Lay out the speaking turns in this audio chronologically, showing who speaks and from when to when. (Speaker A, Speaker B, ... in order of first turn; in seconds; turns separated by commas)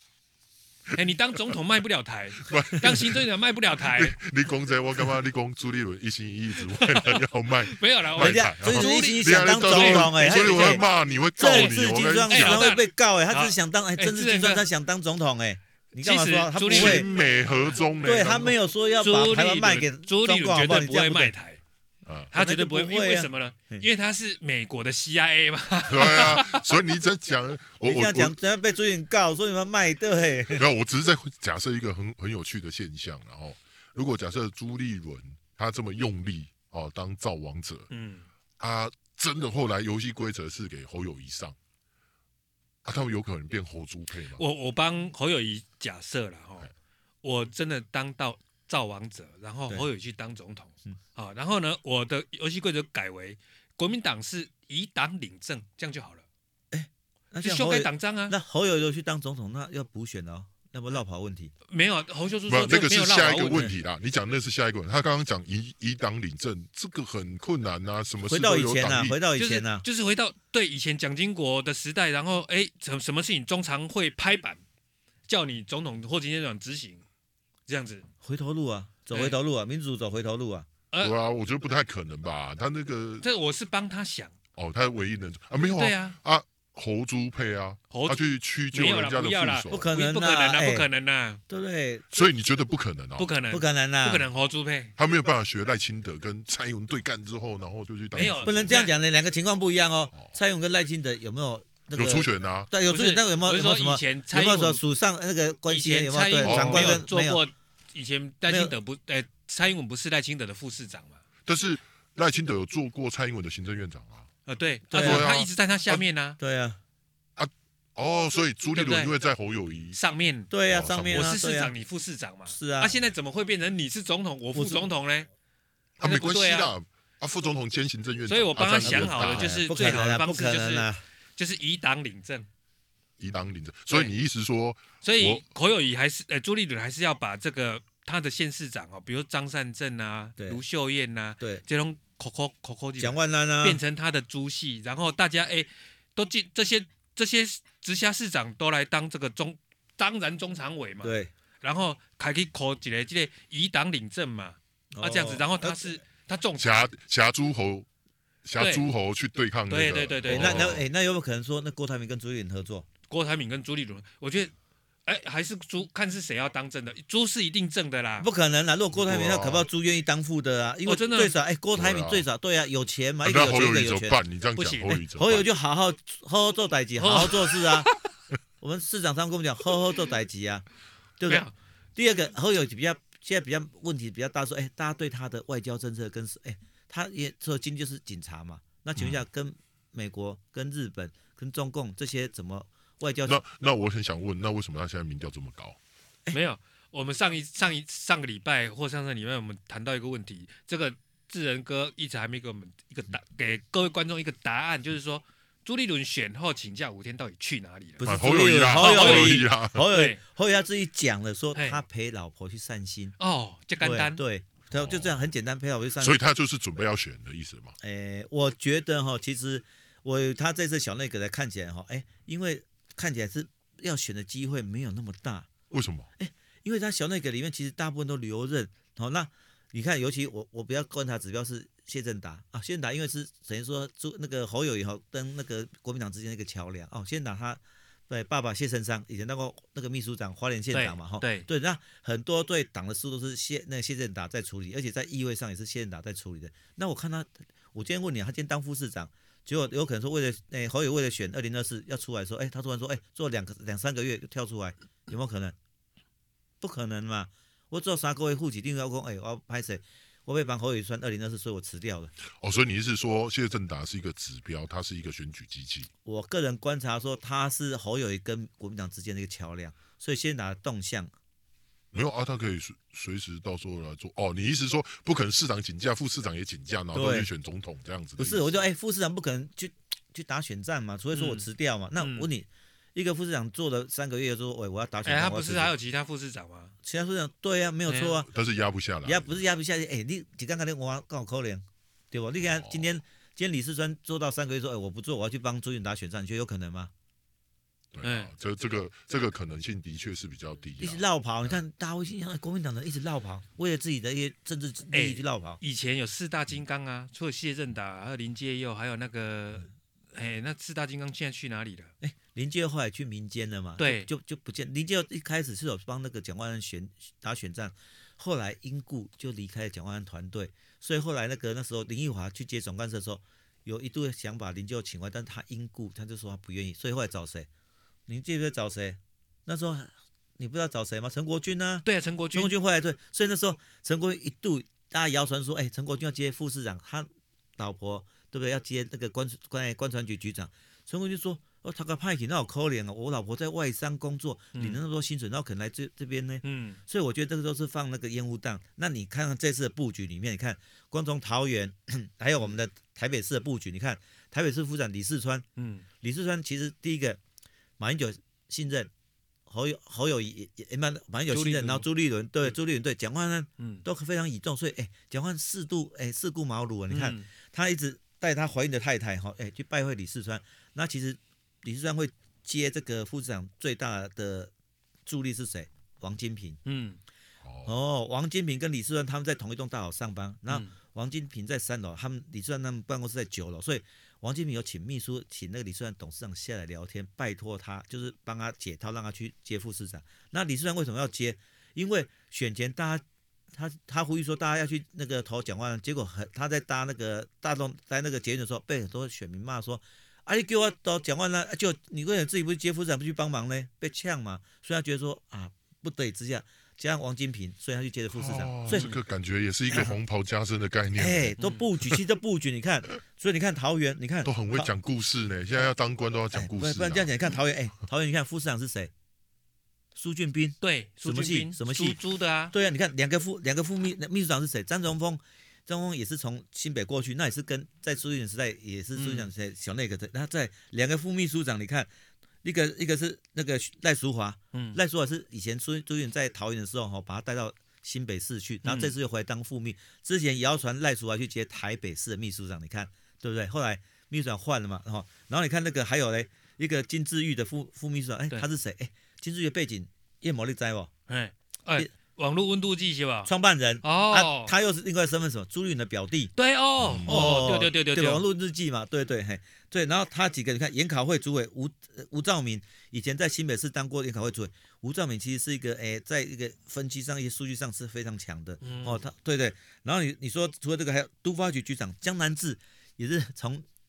Speaker A: 0.9-4.2, Speaker B: 2.4-3.3, Speaker B: 3.9-12.7, Speaker A: 6.7-10.8, Speaker C: 8.2-10.8, Speaker C: 11.4-17.1, Speaker A: 11.4-11.8, Speaker A: 12.3-14.6, Speaker A: 16.0-17.1, Speaker B: 16.7-18.6, Speaker C: 18.0-21.3, Speaker A: 19.0-21.6, Speaker B: 22.1-22.3, Speaker A: 22.3-26.6, Speaker C: 22.3-23.9, Speaker B: 25.9-28.3, Speaker C: 27.8-30.6, Speaker B: 30.5-37.9, Speaker A: 37.9-38.2, Speaker B: 38.6-41.5, Speaker B: 42.8-44.4, Speaker A: 44.4-46.7, Speaker A: 47.2-56.2, Speaker C: 56.7-61.5, Speaker A: 57.4-58.4, Speaker A: 61.7-63.7, Speaker B: 62.5-69.2, Speaker C: 68.2-69.8, Speaker A: 69.3-74.6, Speaker A: 75.3-77.0, Speaker A: 77.7-78.0, Speaker C: 78.2-80.7, Speaker A: 79.1-79.4, Speaker B: 81.0-83.2, Speaker A: 83.2-84.3, Speaker B: 84.5-89.9, Speaker A: 85.8-86.2, Speaker A: 87.9-91.4, Speaker C: 89.7-90.9, Speaker C: 91.5-92.3, Speaker B: 92.1-93.3, Speaker A: 93.2-94.9, Speaker C: 93.5-94.3, Speaker B: 95.0-98.8, Speaker A: 98.1-98.9, Speaker C: 98.2-107.4, Speaker B: 101.9-102.7, Speaker A: 102.9-104.8, Speaker A: 105.7-111.2, Speaker B: 106.4-107.0, Speaker C: 108.5-108.7, Speaker B: 111.5-114.3, Speaker A: 114.5-116.4, Speaker C: 114.9-115.3, Speaker B: 114.9-115.5, Speaker C: 115.9-116.8, Speaker B: 117.4-120.0, Speaker A: 118.7-119.1, Speaker A: 119.9-120.5, Speaker C: 120.5-121.7, Speaker B: 120.7-121.4, Speaker A: 121.1-125.3, Speaker C: 122.5-122.9, Speaker C: 124.5-124.9, Speaker B: 126.0-129.6, Speaker A: 126.0-126.7, Speaker A: 128.3-132.5, Speaker C: 128.6-131.0, Speaker B: 133.2-135.4, Speaker A: 135.0-156.9, Speaker C: 143.0-143.8, Speaker C: 151.0-151.3, Speaker C: 154.9-155.9, Speaker B: 156.6-157.9, Speaker B: 158.4-160.8, Speaker A: 158.6-158.8, Speaker A: 159.7-160.8, Speaker C: 160.3-162.9, Speaker A: 163.1-164.5, Speaker A: 165.0-168.3, Speaker C: 168.2-174.2, Speaker B: 168.9-169.7, Speaker A: 170.8-171.3, Speaker B: 171.7-172.2, Speaker B: 173.2-175.5, Speaker A: 174.6-175.0, Speaker C: 174.9-177.9, Speaker A: 177.0-177.9, Speaker C: 178.6-180.7, Speaker C: 181.2-193.4, Speaker A: 181.3-181.5, Speaker B: 193.2-195.8, Speaker A: 196.3-208.1, Speaker C: 208.0-213.1, Speaker B: 208.0-209.8, Speaker A: 208.7-210.2, Speaker A: 211.5-211.8, Speaker A: 213.2-214.2, Speaker C: 213.8-216.2, Speaker B: 214.7-215.2, Speaker B: 216.0-217.7, Speaker C: 217.8-225.5, Speaker B: 225.7-226.1, Speaker C: 226.2-255.5, Speaker A: 240.7-241.5, Speaker C: 256.6-262.1, Speaker B: 262.3-265.9, Speaker C: 266.0-271.1, Speaker B: 271.9-278.6, Speaker C: 276.9-277.3, Speaker C: 278.2-285.7, Speaker A: 281.1-281.4, Speaker A: 282.0-282.3, Speaker A: 285.0-286.7, Speaker C: 286.8-288.3, Speaker A: 287.9-288.2, Speaker B: 288.3-289.4, Speaker C: 289.0-296.9, Speaker B: 292.4-292.9, Speaker B: 297.9-301.6, Speaker A: 298.0-298.3, Speaker C: 300.8-305.6, Speaker A: 304.9-311.9, Speaker C: 312.0-327.5, Speaker A: 313.8-314.1, Speaker C: 328.1-355.5, Speaker A: 331.8-332.5, Speaker A: 344.5-344.8, Speaker A: 346.4-346.8, Speaker A: 355.6-355.8, Speaker C: 356.0-357.2, Speaker C: 357.8-358.9, Speaker C: 359.5-374.5, Speaker A: 361.3-361.9, Speaker A: 363.6-363.8, Speaker A: 366.9-367.3, Speaker C: 375.1-376.6, Speaker A: 376.6-377.0, Speaker B: 377.4-377.7, Speaker C: 377.6-408.9, Speaker B: 408.1-412.0, Speaker A: 408.7-409.0, Speaker C: 411.0-414.7, Speaker A: 411.4-411.6, Speaker B: 414.2-417.1, Speaker C: 416.3-418.9, Speaker C: 419.9-422.0, Speaker A: 420.6-422.5, Speaker C: 422.5-431.9, Speaker A: 428.9-429.3, Speaker C: 432.4-450.9, Speaker A: 438.6-438.9, Speaker A: 451.1-453.3, Speaker C: 453.2-456.3, Speaker A: 453.8-454.5, Speaker A: 456.4-458.2, Speaker B: 456.8-457.4, Speaker C: 457.1-473.6, Speaker A: 468.6-469.0